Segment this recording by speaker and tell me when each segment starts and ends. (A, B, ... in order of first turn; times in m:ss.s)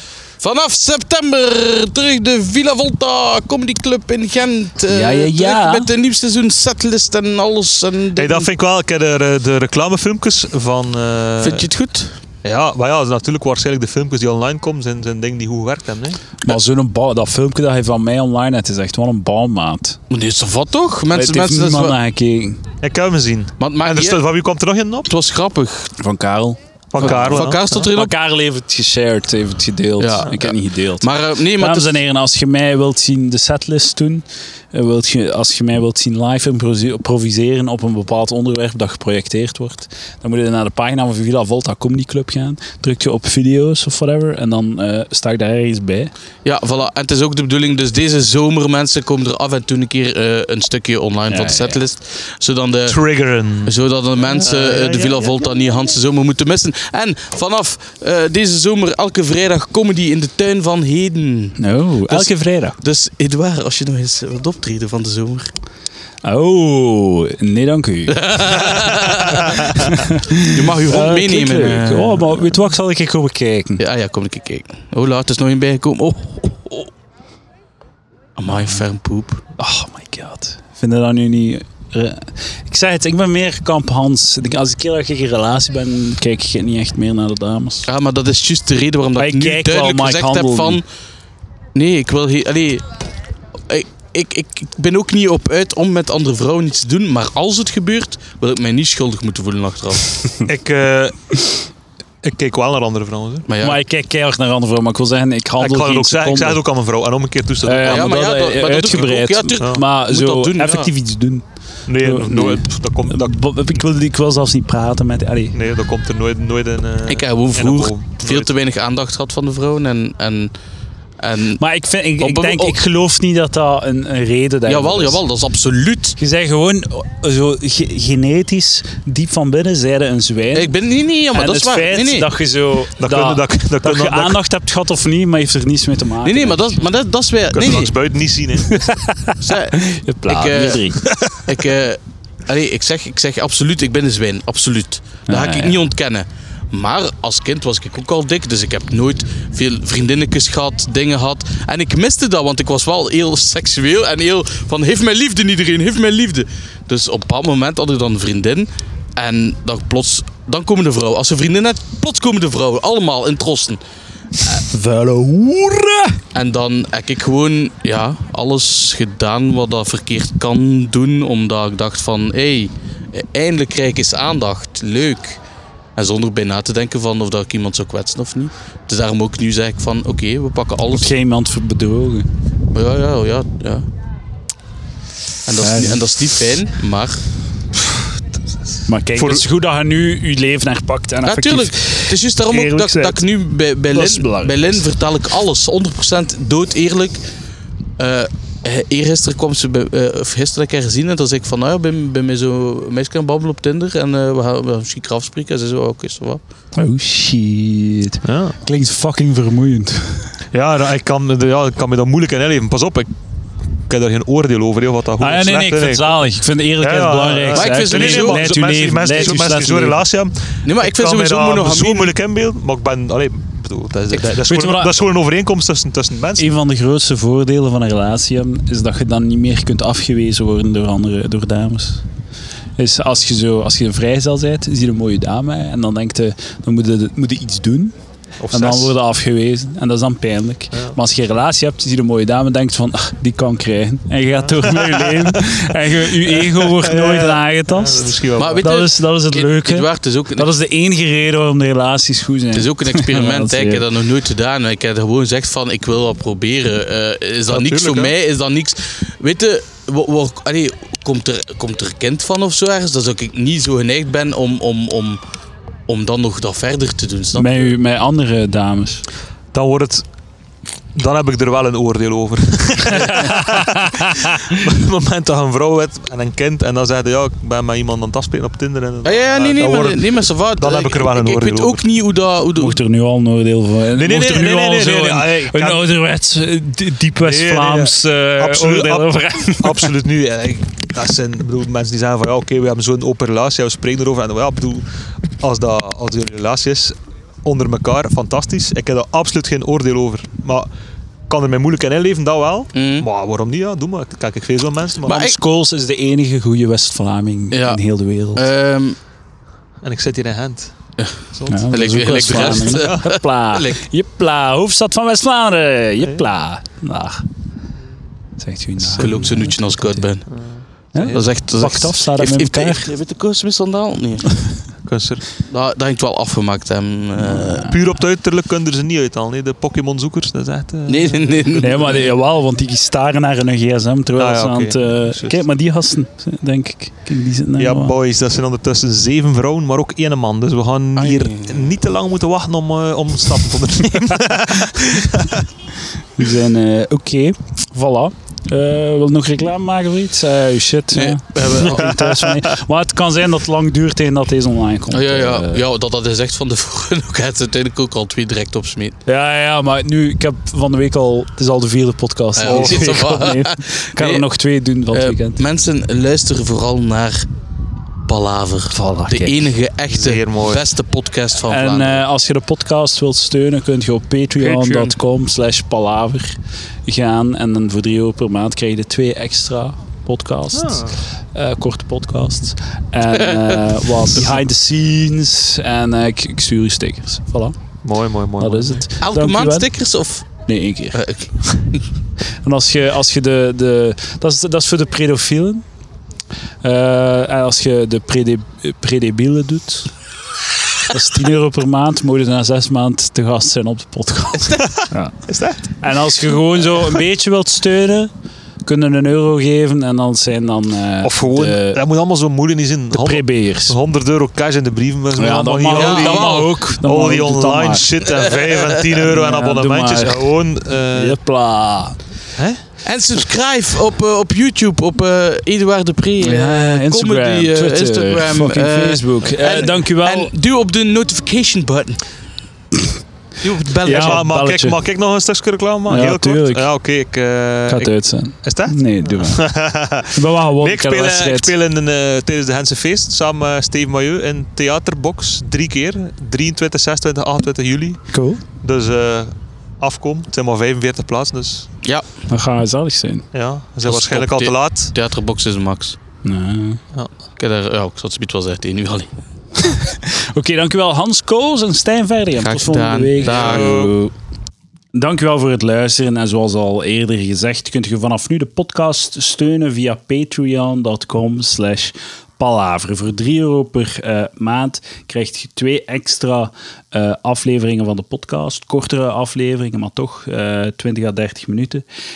0:00.4-0:08.5 A
0:04.9-0:05.9 B
0:08.2-0:11.7 C
0:11.4-0:12.2 A
0:12.4-0:16.2 C
0:16.4-0:20.0 B
0:20.1-0:22.0 A
0:21.1-0:22.6 B
0:22.8-0:25.1 C
0:23.6-0:24.2 A
0:25.1-0:25.9 A
0:26.0-0:46.1 B
0:26.9-0:27.9 C
0:27.0-0:28.2 A
0:30.0-0:32.0 A
0:46.4-0:53.0 A
0:51.3-0:51.8 B
0:52.9-0:53.7 C
0:53.6-1:01.6 A
0:54.3-0:55.5 C
1:01.6-1:02.8 B
1:02.1-1:05.5 A
1:06.2-1:13.8 B
1:08.1-1:12.6 A
1:13.8-1:16.9 A
1:18.4-1:19.4 A
1:18.5-1:18.8 B
1:19.6-1:27.9 B
1:27.9-1:30.8 A
1:29.2-1:30.8 B
1:31.8-1:32.8 A
1:33.7-1:40.1 A
1:40.5-1:41.2 C
1:42.2-1:43.5 C
1:43.5-1:43.8 A
1:43.6-1:46.6 B
1:45.6-1:48.2 C
1:47.6-1:55.6 B
1:47.9-1:50.9 A
1:51.9-1:53.4 C
1:55.5-1:58.5 C
1:57.1-2:00.5 A
2:01.2-2:01.6 A
2:01.6-2:05.2 B
2:02.2-2:02.8 A
2:04.7-2:06.2 A
2:06.2-2:10.7 B
2:10.5-2:12.3 A
2:11.3-2:16.8 B
2:13.0-2:14.4 C
2:16.2-2:17.9 A
2:17.5-2:18.8 C
2:18.7-2:21.0 B
2:19.4-2:43.8 A
2:21.1-2:21.4 C
2:25.3-2:25.8 B
2:44.7-2:46.2 B
2:46.4-2:55.4 A
2:56.0-3:01.1 A
3:00.9-3:02.3 B
3:02.7-3:03.9 A
3:05.5-3:07.2 A
3:05.6-3:06.1 B
3:08.9-3:13.2 B
3:09.2-3:09.4 C
3:11.3-3:17.2 A
3:13.9-3:14.8 B
3:18.0-3:26.4 A
3:26.8-3:30.3 B
3:28.2-3:28.6 C
3:30.5-3:33.1 C
3:33.8-3:36.2 C
3:35.2-3:40.0 B
3:36.8-3:46.5 C
3:37.5-3:38.5 A
3:40.6-3:42.1 A
3:44.4-3:44.9 B
3:46.4-3:52.0 B
3:52.8-3:57.9 B
3:58.4-3:59.0 C
3:58.5-4:13.8 B
4:04.6-4:05.4 C
4:06.2-4:08.6 C
4:08.4-4:10.5 A
4:12.5-4:25.2 A
4:17.5-4:18.1 C
4:25.9-4:27.7 A
4:27.4-4:29.0 B
4:29.5-4:30.0 C
4:31.0-4:41.8 C
4:32.9-4:34.4 B
4:39.0-4:42.8 A
4:42.6-4:49.9 B
4:43.9-4:45.9 C
4:47.2-4:54.9 C
4:55.4-5:00.7 C
5:01.3-5:05.3 C
5:02.8-5:03.1 A
5:05.0-5:08.5 B
5:05.1-5:05.4 A
5:07.5-5:07.8 A
5:08.4-5:09.0 A
5:09.8-5:10.7 C
5:11.0-5:13.7 A
5:11.3-5:11.6 C
5:11.5-5:17.2 B
5:12.2-5:13.2 C
5:18.4-5:20.0 B
5:18.8-5:19.3 C
5:19.0-5:20.3 A
5:20.3-5:21.3 C
5:21.0-5:22.9 B
5:21.1-5:24.4 A
5:24.9-5:25.2 C
5:25.5-5:27.7 A
5:27.2-5:27.7 B
5:27.7-5:32.0 C
5:30.9-5:32.0 A
5:31.6-5:38.0 B
5:34.2-5:35.5 C
5:37.6-5:45.5 C
5:41.0-5:41.7 A
5:46.2-5:55.6 B
5:50.9-5:52.0 A
5:51.9-5:52.4 C
5:54.9-5:59.0 A
5:59.1-6:05.4 B
6:02.4-6:04.2 A
6:02.4-6:03.0 C
6:04.9-6:07.3 A
6:08.1-6:12.0 A
6:08.7-6:09.5 B
6:09.9-6:10.7 C
6:11.5-6:27.6 B
6:14.4-6:15.0 A
6:20.5-6:21.0 C
6:23.1-6:24.3 A
6:27.8-6:28.8 C
6:28.4-6:29.7 B
6:29.0-6:30.3 A
6:30.5-6:31.0 B
6:30.9-6:31.8 A
6:32.4-6:35.7 B
6:36.6-6:39.9 B
6:40.9-6:45.2 B
6:44.6-6:45.7 C
6:45.8-6:48.1 B
6:48.6-6:51.8 B
6:51.0-7:01.2 C
6:52.9-6:53.8 B
6:55.2-6:57.9 B
6:55.7-6:56.6 A
6:58.4-6:58.8 A
6:59.0-7:00.3 B
7:00.9-7:02.0 B
7:02.8-7:12.0 A
7:06.2-7:10.3 B
7:13.4-7:14.2 A
7:13.8-7:14.8 B
7:13.9-7:28.0 C
7:15.9-7:16.7 B
7:17.7-7:21.5 B
7:28.1-7:28.4 B
7:28.6-7:31.7 C
7:32.3-7:33.3 B
7:33.3-7:34.9 C
7:33.8-7:36.0 A
7:36.2-7:36.8 B
7:37.4-7:39.1 A
7:39.6-7:44.1 B
7:42.4-7:43.8 A
7:43.2-7:43.9 C
7:44.9-8:01.8 B